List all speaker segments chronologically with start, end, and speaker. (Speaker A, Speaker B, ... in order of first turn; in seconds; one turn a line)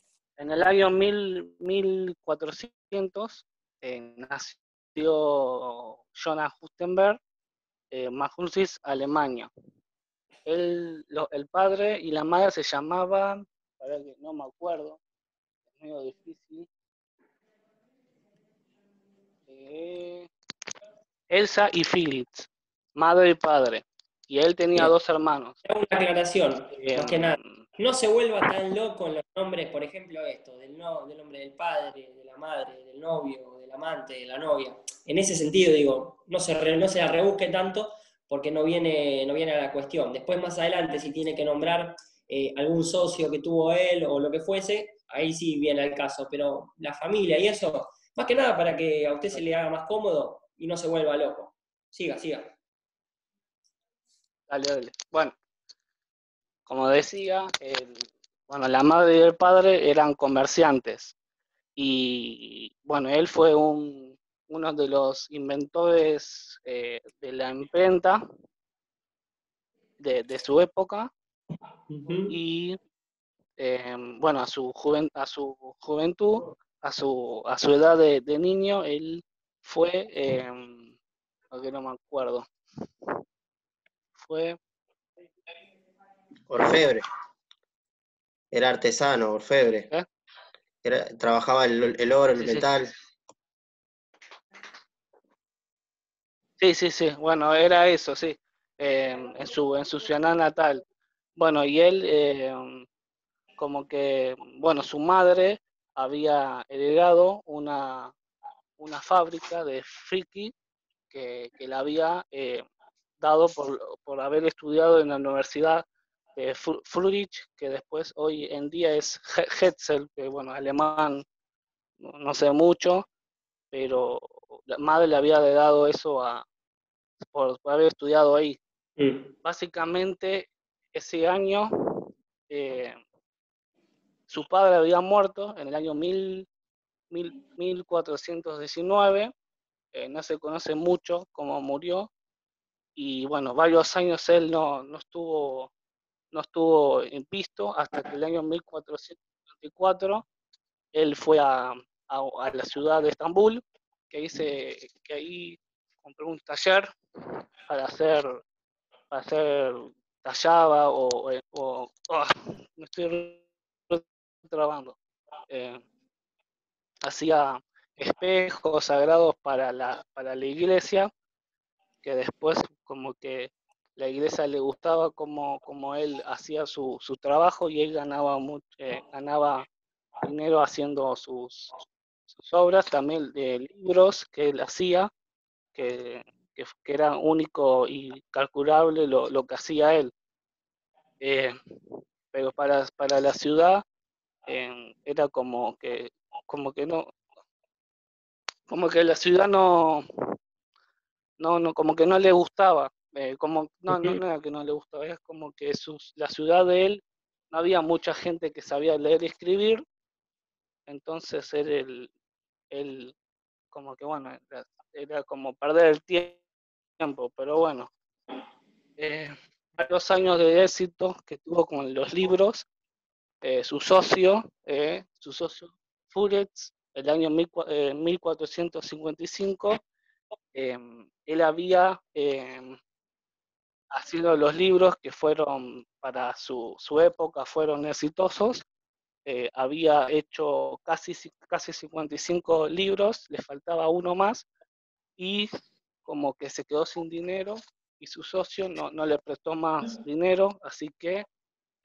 Speaker A: 0.4-7.2
Speaker A: 7.9-9.5
Speaker A: 10.5-15.0
Speaker A: 15.7-16.7
Speaker A: 19.5-20.3
Speaker A: 21.3-25.6
Speaker B: 25.6-52.6
Speaker A: 26.7-27.6
Speaker A: 54.5-55.4
Speaker A: 56.7-61.1
Speaker A: 61.8-68.2
Speaker A: 70.0-71.1
Speaker B: 71.9-72.4
Speaker A: 72.3-72.8
Speaker A: 73.6-80.9
Speaker A: 81.5-82.5
Speaker A: 84.2-84.6
Speaker C: 86.5-87.1
Speaker C: 88.5-89.9
Speaker C: 90.8-92.9
Speaker A: 92.4-92.7
Speaker A: 96.6-100.8
Speaker A: 101.4-102.9
Speaker A: 103.6-108.1
Speaker A: 108.8-110.5
Speaker A: 111.1-112.7
Speaker A: 113.2-115.8
Speaker A: 116.4-121.2
Speaker A: 122.0-123.1
Speaker A: 123.7-126.5
Speaker A: 127.2-128.6
Speaker B: 129.0-129.3
Speaker A: 129.4-133.0
Speaker A: 134.3-136.5
Speaker A: 137.1-139.3
Speaker A: 139.9-142.1
Speaker A: 143.0-145.7
Speaker A: 146.3-150.2
Speaker A: 150.9-156.9
Speaker A: 157.7-158.4
Speaker A: 159.1-165.0
Speaker A: 165.5-165.8
Speaker A: 167.0-171.1
Speaker A: 172.0-179.7
Speaker A: 180.2-181.8
Speaker A: 182.3-185.1
Speaker A: 185.8-190.1
Speaker A: 191.2-191.6
Speaker A: 192.3-193.8
Speaker A: 194.5-197.1
Speaker A: 198.7-200.1
Speaker A: 201.4-209.8
Speaker B: 203.9-204.2
Speaker A: 210.9-212.1
Speaker A: 212.7-213.2
Speaker A: 213.7-216.4
Speaker A: 217.0-217.9
Speaker A: 219.0-222.7
Speaker A: 223.4-229.8
Speaker A: 230.5-232.8
Speaker A: 233.9-238.6
Speaker A: 239.3-244.5
Speaker A: 245.2-245.5
Speaker A: 246.0-251.3